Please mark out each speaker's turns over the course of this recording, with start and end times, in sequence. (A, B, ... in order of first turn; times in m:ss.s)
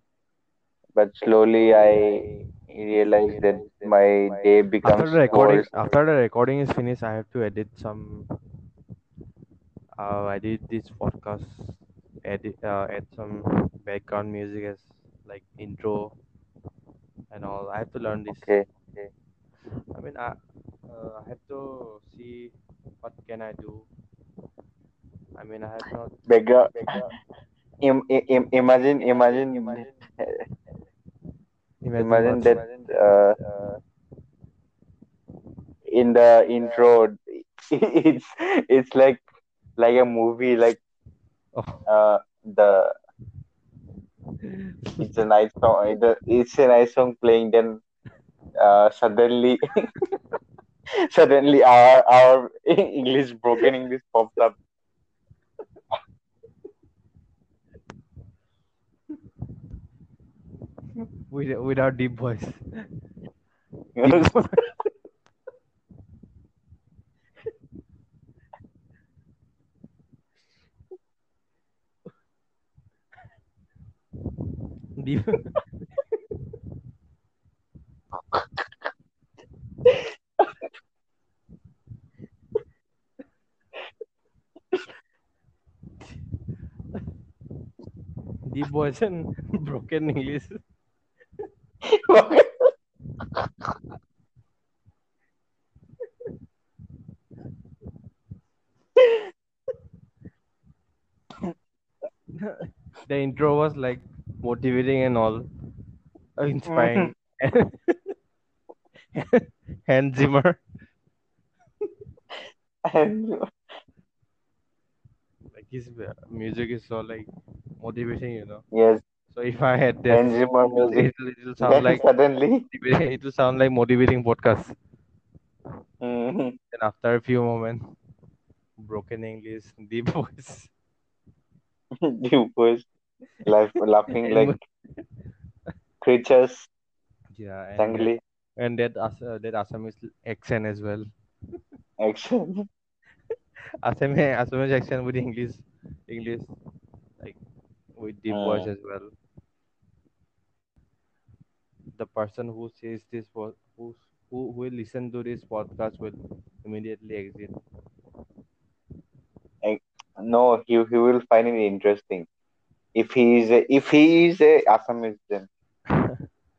0:01.0-0:05.7 A
0:04.8-0:08.3 B
0:10.0-0:16.1 B
0:17.3-0:18.5 B
0:18.3-0:19.1 A
0:19.9-0:20.4 B
0:20.9-0:23.9 B
0:25.4-0:26.2 B
0:26.3-0:27.1 A
0:27.8-0:30.4 A
0:31.8-0:32.6 B
0:32.0-0:33.4 A
0:35.9-0:39.2 A
0:39.8-0:40.8 A
0:41.6-0:41.8 B
0:41.9-0:42.9 A
0:44.4-0:45.0 B
0:45.0-0:47.8 A
0:48.6-0:49.9 A
0:51.0-0:54.6 A
1:01.3-1:02.8 B
1:04.0-1:04.3 A
1:04.0-1:04.7 B
1:15.0-1:15.6 B
1:28.4-1:30.6 B
1:31.9-1:32.7 A
1:42.4-1:45.5 B
1:46.4-1:48.1 B
1:46.7-1:47.1 A
1:49.1-1:50.6 B
1:52.8-1:53.5 A
1:55.5-1:57.3 B
1:57.8-1:58.6 B
1:58.7-1:59.0 A
1:59.3-2:02.0 B
2:00.1-2:01.1 A
2:01.6-2:02.6 A
2:02.7-2:04.8 B
2:06.0-2:06.6 A
2:06.7-2:07.8 B
2:08.8-2:10.7 B
2:12.0-2:12.9 A
2:13.4-2:14.6 A
2:14.1-2:14.6 B
2:16.0-2:16.7 A
2:17.4-2:21.1 B
2:17.8-2:18.2 A
2:22.0-2:22.7 A
2:23.8-2:26.5 B
2:28.0-2:29.1 B
2:28.3-2:28.7 A
2:32.0-2:37.6 B
2:39.6-2:42.3 A
2:43.0-2:45.5 A